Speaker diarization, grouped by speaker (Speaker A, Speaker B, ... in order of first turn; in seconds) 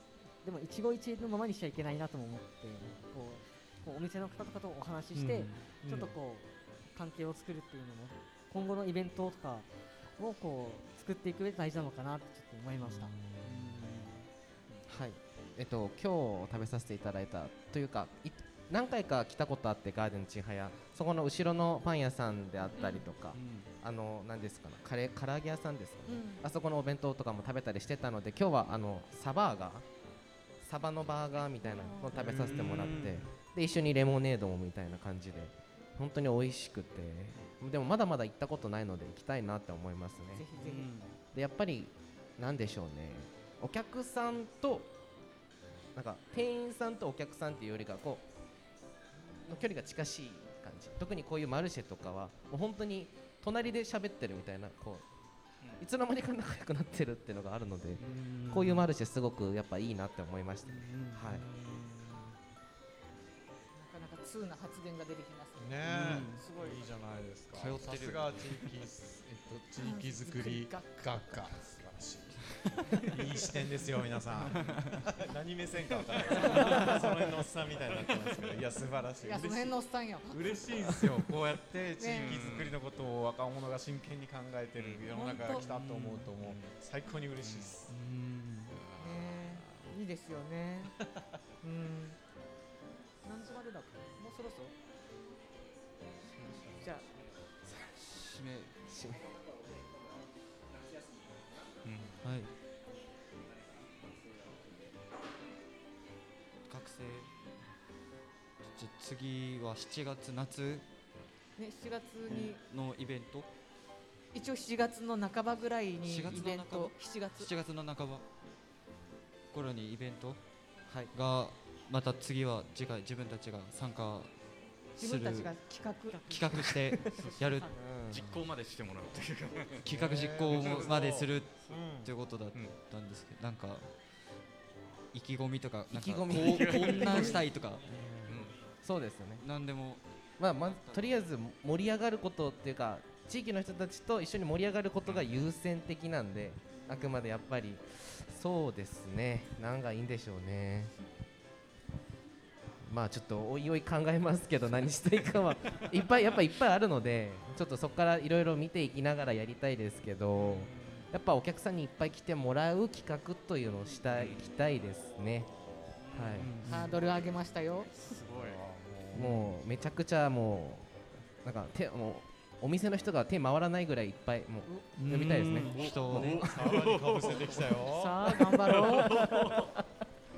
Speaker A: 0.4-13.2, 126.1-126.7, 127.3-128.0
Speaker B: 5.3-6.0, 61.2-62.4, 65.6-72.5, 73.1-87.8, 88.7-89.9, 90.8-91.2, 129.9-132.1, 160.3-161.1, 168.2-169.4, 176.1-178.2
Speaker C: 12.8-13.8, 14.9-29.8, 30.6-40.4, 41.3-44.9, 45.9-48.2, 49.5-55.0, 55.8-61.4, 97.7-97.9, 98.9-99.2, 120.9-121.1, 127.8-128.4, 135.9-139.4, 140.4-150.9, 152.8-165.5, 166.1-166.6, 169.1-170.9, 171.4-175.7
Speaker D: 13.4-14.8, 23.3-23.7, 32.2-33.3, 40.5-41.1, 58.0-58.8, 60.6-61.2, 65.8-66.4, 67.5-68.5, 74.5-74.9, 85.7-86.2, 87.9-88.8, 98.1-98.7, 102.2-102.5, 106.7-107.3, 108.7-110.8, 112.4-113.5, 116.0-118.2, 119.5-120.4, 121.1-124.3, 125.0-125.5, 126.3-127.7, 129.8-133.9, 135.1-137.8, 139.4-140.0, 140.6-141.1, 166.0-167.0, 169.1-169.5, 175.0-176.6
Speaker E: 22.8-23.0, 26.1-26.4, 31.6-32.3, 40.3-40.9, 63.8-66.9, 69.8-71.5, 76.6-76.9, 79.2-80.4, 82.0-82.3, 85.1-85.7, 89.0-90.9, 91.6-92.2, 93.2-94.7, 96.7-97.0, 111.6-112.6, 114.3-117.5, 125.0-126.2, 166.6-167.9, 177.8-179.7
Speaker F: 82.2-82.8, 84.8-85.6, 87.4-87.7, 96.4-96.7, 101.8-102.2, 128.3-129.8, 130.5-130.9, 136.5-137.5, 138.3-138.6, 167.9-168.5, 175.7-177.7, 178.3-179.7